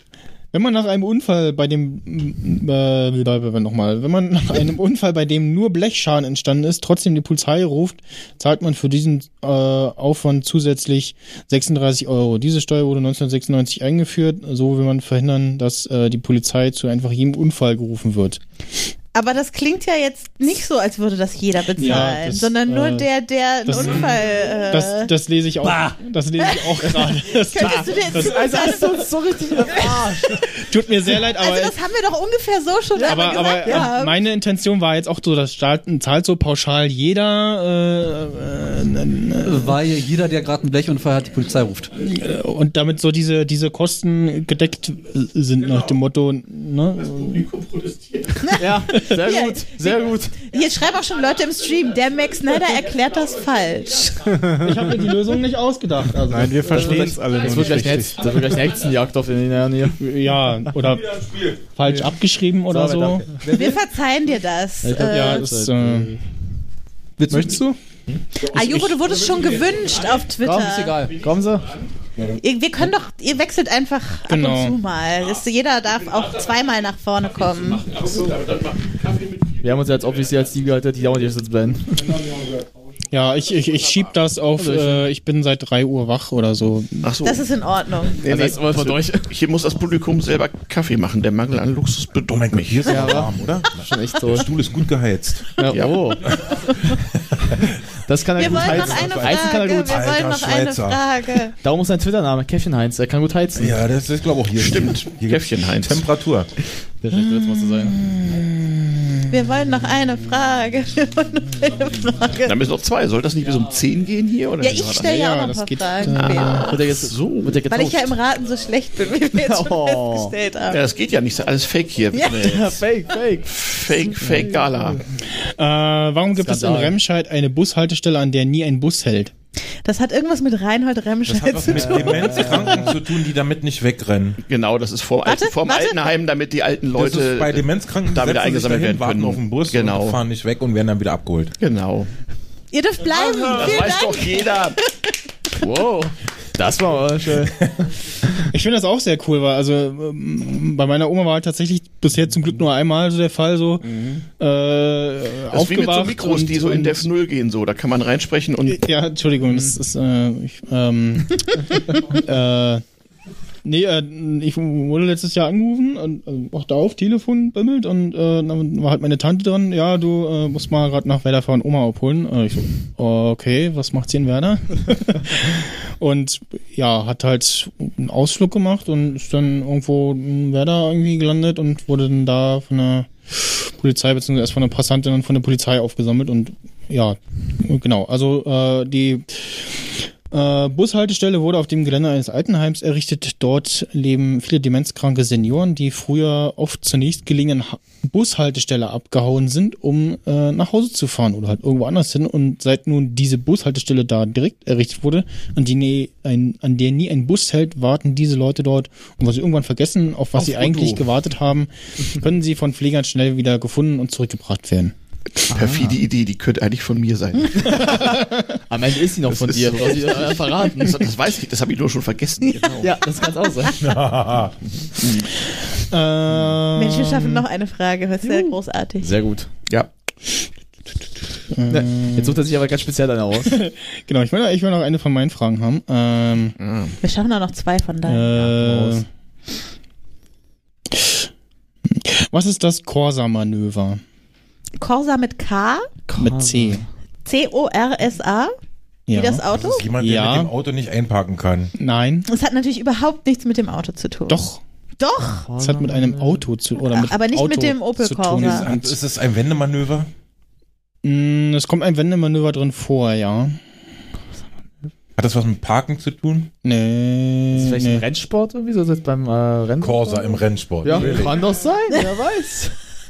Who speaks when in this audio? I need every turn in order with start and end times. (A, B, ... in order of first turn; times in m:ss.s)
0:00.5-0:18.4 A
0:19.1-0:25.1 B
0:21.7-0:23.1 A
0:23.6-0:28.7 A
0:25.6-0:25.9 C
0:26.4-0:30.0 B
0:27.6-0:30.4 D
0:30.5-0:31.7 A
0:31.4-0:34.2 B
0:33.0-0:33.9 D
0:33.1-0:39.8 A
0:39.4-0:41.9 C
0:42.0-0:47.6 A
0:48.4-0:54.4 B
0:48.5-0:50.4 D
0:54.3-0:54.8 E
0:54.6-0:57.2 A
0:56.3-0:58.3 E
0:56.7-1:00.0 D
1:00.0-1:03.2 A
1:02.7-1:03.7 D
1:03.5-1:05.4 B
1:03.5-1:03.8 C
1:04.8-1:06.2 D
1:05.0-1:06.2 A
1:07.2-1:07.6 C
1:07.3-1:07.8 E
1:08.4-1:11.0 B
1:10.4-1:11.7 D
1:10.5-1:11.2 C
1:12.4-1:17.9 B
1:14.3-1:14.8 A
1:19.6-1:22.1 D
1:23.1-1:27.1 A
1:24.6-1:25.1 D
1:27.0-1:27.5 F
1:27.2-1:28.2 B
1:28.2-1:33.2 F
1:28.2-1:29.3 D
1:32.3-1:35.6 G
1:32.8-1:34.5 D
1:35.6-1:36.4 D
1:35.7-1:36.1 F
1:36.9-1:37.7 G
1:38.0-1:40.1 D
1:38.4-1:41.0 G
1:38.4-1:41.5 B
1:41.6-1:43.8 D
1:43.6-1:46.5 G
1:44.5-1:46.1 F
1:47.0-1:48.0 D
1:47.1-1:49.4 A
1:49.3-1:52.6 B
1:52.4-1:55.1 F
1:54.6-1:56.7 B
1:55.0-1:56.6 A
1:56.1-1:57.6 F
1:56.6-1:58.2 D
1:57.7-2:00.8 B
1:59.3-2:00.3 D
2:00.7-2:02.8 F
2:02.1-2:02.5 B
2:02.3-2:04.7 D
2:03.5-2:05.0 F
2:05.4-2:09.3 A
2:06.4-2:07.0 D
2:09.8-2:12.6 B
2:11.2-2:14.4 G
2:11.7-2:13.0 D
2:14.4-2:20.2 F
2:15.2-2:16.0 B
2:16.9-2:21.5 G
2:21.6-2:22.1 F
2:22.7-2:24.7 B
2:23.2-2:24.8 F
2:25.5-2:27.7 D
2:28.5-2:37.1 A
2:35.5-2:38.8 F
2:38.7-2:42.8 A
2:43.6-3:34.9 A
3:30.4-3:31.0 F
3:35.5-3:36.0 D
3:35.5-3:38.0 F
3:37.6-3:41.1 D
3:38.0-3:38.5 A
3:39.3-3:42.9 F
3:42.8-3:43.8 D
3:43.7-3:44.6 G
3:45.8-3:47.4 A
3:46.7-3:49.1 B
3:48.2-3:49.5 D
3:51.5-3:52.4 A
3:51.7-3:53.6 D
3:53.4-3:56.5 A
3:56.6-3:57.0 F
3:57.0-3:58.4 B
3:58.0-3:59.1 A
3:58.4-3:59.0 D
4:00.9-4:01.3 A
4:01.9-4:04.0 A
4:04.8-4:05.9 B
4:06.1-4:06.9 D
4:06.2-4:06.8 A
4:07.2-4:08.5 B
4:09.1-4:09.4 A
4:09.1-4:09.9 B
4:09.5-4:11.7 G
4:10.0-4:10.5 A
4:11.8-4:12.2 A
4:12.2-4:14.4 B
4:14.3-4:14.6 A
4:15.0-4:15.5 B
4:15.4-4:16.4 D
4:15.6-4:19.0 A
4:16.8-4:18.7 B
4:18.3-4:20.1 G
4:21.0-4:23.6 A
4:25.2-4:26.5 G
4:26.6-4:28.0 A
4:27.5-4:32.8 D
4:29.8-4:31.4 G